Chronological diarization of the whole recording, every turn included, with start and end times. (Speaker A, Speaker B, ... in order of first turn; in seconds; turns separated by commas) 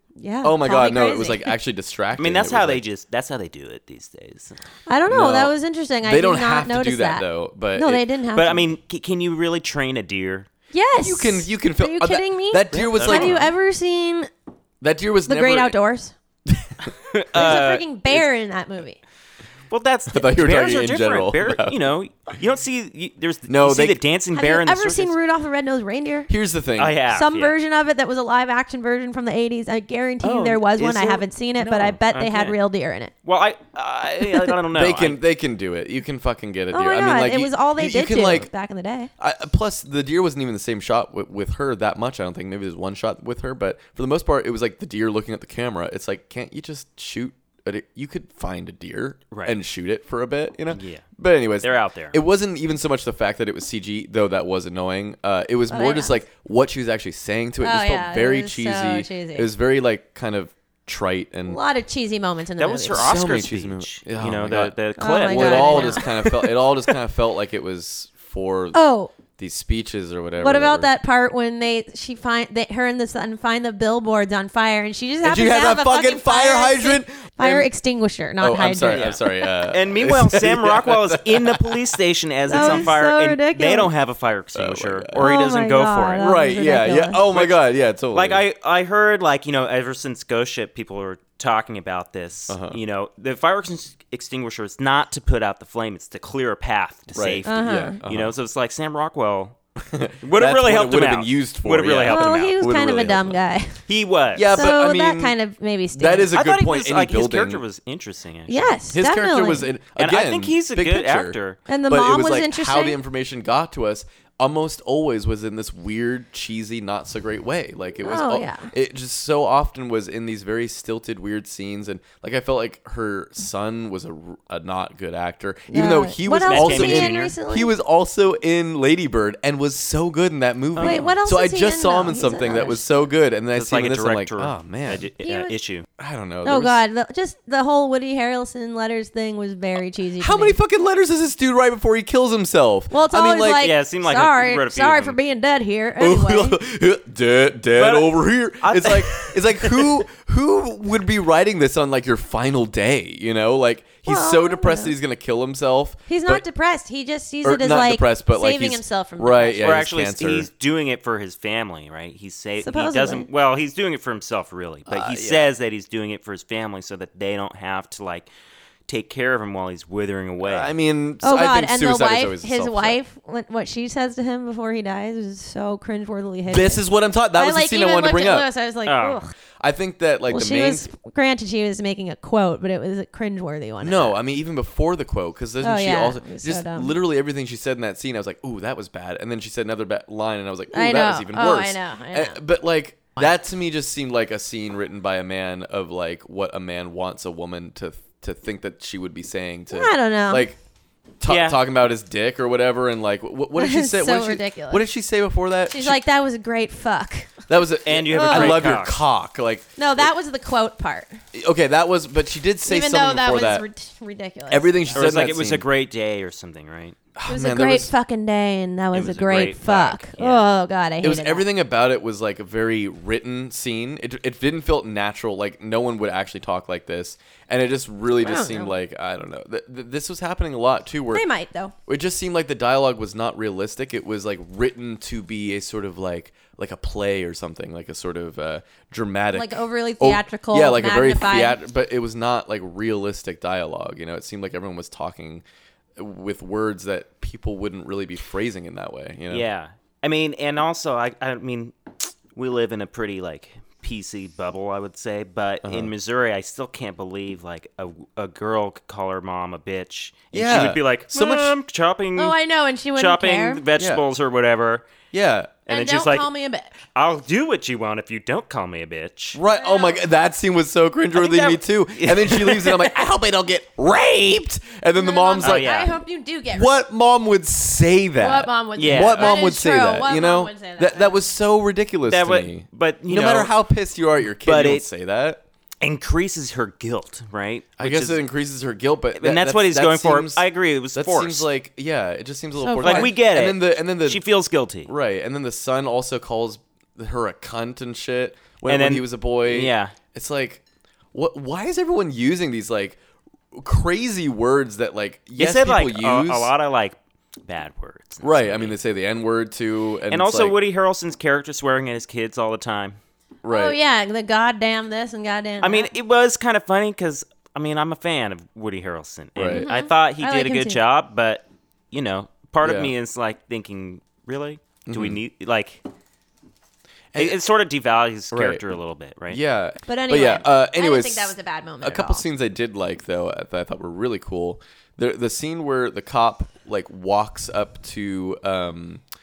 Speaker A: 0.2-1.5, Speaker B: 0.4-2.8, Speaker C: 2.1-4.6, Speaker A: 4.9-8.7, Speaker B: 5.1-8.0, Speaker C: 8.3-10.5, Speaker A: 10.7-14.3, Speaker B: 11.0-13.4, Speaker C: 12.7-13.5, Speaker B: 14.8-15.8, Speaker A: 15.3-16.1, Speaker B: 16.4-17.6, Speaker C: 17.1-17.8, Speaker A: 17.3-19.0, Speaker C: 19.7-25.1, Speaker B: 20.1-21.8, Speaker B: 23.5-24.0, Speaker A: 24.3-26.3, Speaker B: 26.3-27.0, Speaker C: 26.8-27.5, Speaker A: 27.1-33.1, Speaker C: 30.2-32.6, Speaker C: 33.2-35.2, Speaker B: 34.7-38.5, Speaker A: 36.7-39.1, Speaker B: 39.2-61.6, Speaker C: 49.3-49.6, Speaker C: 50.7-51.0, Speaker C: 51.6-52.2, Speaker A: 55.7-56.2, Speaker A: 57.6-59.5, Speaker A: 61.5-63.1, Speaker C: 62.6-66.5, Speaker B: 62.9-68.8, Speaker A: 65.0-66.0, Speaker A: 68.7-69.1, Speaker B: 69.4-70.9, Speaker A: 70.4-79.1, Speaker B: 75.2-77.7, Speaker B: 78.4-81.8, Speaker C: 78.9-86.2, Speaker A: 82.5-83.9, Speaker B: 82.5-82.9, Speaker B: 84.5-85.2, Speaker A: 85.2-87.2, Speaker B: 86.2-88.4, Speaker C: 87.3-87.6, Speaker C: 88.1-99.6, Speaker B: 92.5-92.8, Speaker B: 97.1-98.3, Speaker A: 97.5-98.0, Speaker B: 99.8-103.4, Speaker C: 100.2-102.6, Speaker A: 102.0-103.8, Speaker C: 103.9-104.6, Speaker B: 104.3-105.3, Speaker A: 104.5-106.3, Speaker B: 105.9-107.6, Speaker C: 106.3-108.8, Speaker A: 108.5-109.7, Speaker B: 108.9-111.4, Speaker C: 110.0-111.6, Speaker A: 111.7-113.0, Speaker B: 111.9-135.1, Speaker A: 118.0-118.7, Speaker A: 125.7-127.7, Speaker C: 126.4-127.3, Speaker C: 130.8-131.2, Speaker A: 130.8-132.8, Speaker C: 133.5-135.9, Speaker A: 135.2-135.6, Speaker B: 136.0-136.8, Speaker A: 136.4-140.6, Speaker B: 140.2-143.7, Speaker A: 142.9-146.6, Speaker C: 143.5-145.2, Speaker B: 146.0-156.4, Speaker C: 147.8-150.0, Speaker A: 154.1-154.9, Speaker A: 156.1-159.7, Speaker B: 157.4-160.5, Speaker C: 159.6-168.3, Speaker A: 162.6-163.3, Speaker B: 164.9-165.5, Speaker C: 168.9-170.7, Speaker B: 170.4-173.0, Speaker A: 171.2-176.8, Speaker B: 176.5-178.5, Speaker A: 177.3-179.3, Speaker C: 178.9-179.2, Speaker B: 179.6-180.9, Speaker A: 180.3-184.2, Speaker B: 183.8-200.6, Speaker A: 185.6-186.9, Speaker A: 190.7-192.4, Speaker A: 199.7-200.5, Speaker B: 201.2-206.0, Speaker C: 201.2-201.6, Speaker A: 203.6-204.9, Speaker A: 205.7-207.4, Speaker B: 207.5-210.1, Speaker C: 207.8-209.0, Speaker A: 208.1-208.8, Speaker A: 209.8-211.2, Speaker B: 211.3-213.7, Speaker A: 212.7-215.1, Speaker B: 214.5-215.7, Speaker C: 214.9-217.0, Speaker B: 217.2-217.9, Speaker A: 217.3-221.4, Speaker C: 218.9-220.4, Speaker B: 221.0-231.3, Speaker A: 228.2-228.7, Speaker A: 231.1-231.7, Speaker B: 231.9-245.4, Speaker A: 239.3-241.6, Speaker B: 245.9-249.4, Speaker C: 249.3-262.4, Speaker B: 255.6-255.9, Speaker B: 260.3-261.6, Speaker A: 262.1-263.6, Speaker C: 262.9-264.9, Speaker B: 263.7-264.0, Speaker B: 265.1-265.7, Speaker C: 265.7-266.3, Speaker A: 265.7-266.7, Speaker C: 266.9-269.4, Speaker B: 269.3-275.7, Speaker A: 269.5-270.0, Speaker C: 271.1-272.9, Speaker A: 274.9-276.7, Speaker C: 275.4-276.0, Speaker B: 276.5-285.4, Speaker A: 278.2-281.2, Speaker C: 278.8-279.3, Speaker C: 282.1-283.5, Speaker C: 284.4-284.9, Speaker C: 285.8-288.2, Speaker B: 287.8-290.4, Speaker C: 289.1-291.4, Speaker B: 290.9-294.2, Speaker A: 292.6-293.1, Speaker C: 292.8-294.9, Speaker B: 294.9-300.6, Speaker C: 298.6-299.9, Speaker B: 301.1-303.0, Speaker B: 303.5-306.5, Speaker C: 305.4-308.7, Speaker B: 308.2-310.5, Speaker C: 310.1-313.0, Speaker B: 313.4-313.8, Speaker A: 313.5-315.9, Speaker C: 315.6-325.8, Speaker B: 319.3-319.7, Speaker A: 319.5-320.8, Speaker B: 322.6-322.9, Speaker B: 324.9-325.2, Speaker B: 327.1-327.4, Speaker C: 327.1-329.4, Speaker B: 328.3-328.6, Speaker B: 329.3-339.0, Speaker A: 329.9-332.2